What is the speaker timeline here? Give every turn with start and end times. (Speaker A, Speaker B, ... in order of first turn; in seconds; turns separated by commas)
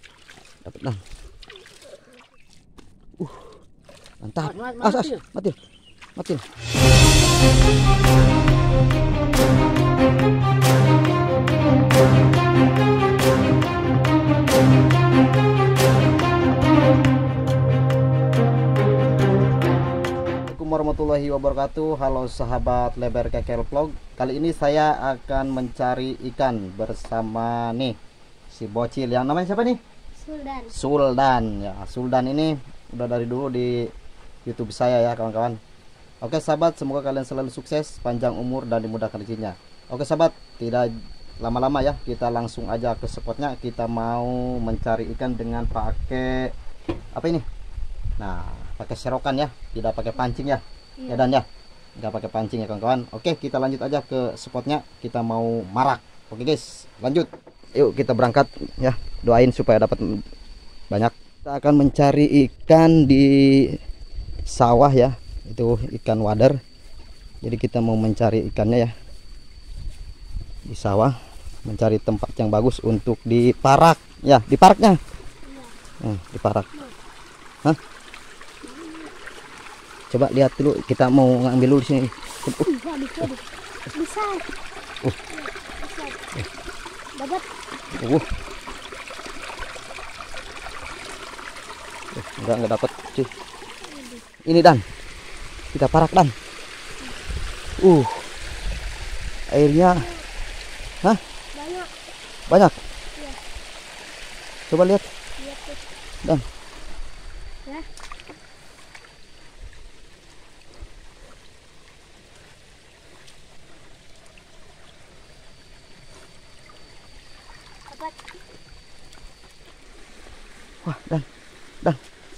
Speaker A: 0.6-1.0, Speaker A: 3.2-3.5, Speaker A: 4.2-5.6, Speaker A: 6.2-6.4, Speaker A: 20.5-28.0, Speaker A: 28.5-29.8, Speaker B: 30.2-30.7, Speaker A: 30.7-33.9, Speaker A: 34.5-35.6, Speaker A: 36.2-46.5, Speaker A: 47.1-47.4, Speaker A: 48.2-51.5, Speaker A: 52.0-60.2, Speaker A: 60.9-63.8, Speaker A: 64.5-66.6, Speaker A: 67.4-68.9, Speaker A: 70.7-75.0, Speaker B: 75.5-75.7, Speaker A: 76.0-76.7, Speaker B: 78.6-79.1, Speaker A: 80.1-82.6, Speaker B: 82.6-84.5, Speaker B: 85.3-86.2, Speaker B: 87.2-87.5, Speaker A: 87.9-88.3, Speaker A: 92.1-93.3, Speaker B: 93.8-94.2, Speaker A: 94.5-94.8, Speaker A: 95.7-96.3, Speaker A: 97.8-98.3, Speaker A: 99.5-100.1, Speaker B: 99.8-100.3, Speaker B: 101.5-101.9, Speaker A: 102.5-102.8, Speaker A: 104.7-105.1, Speaker B: 105.4-105.8, Speaker B: 117.9-118.2, Speaker A: 120.8-121.3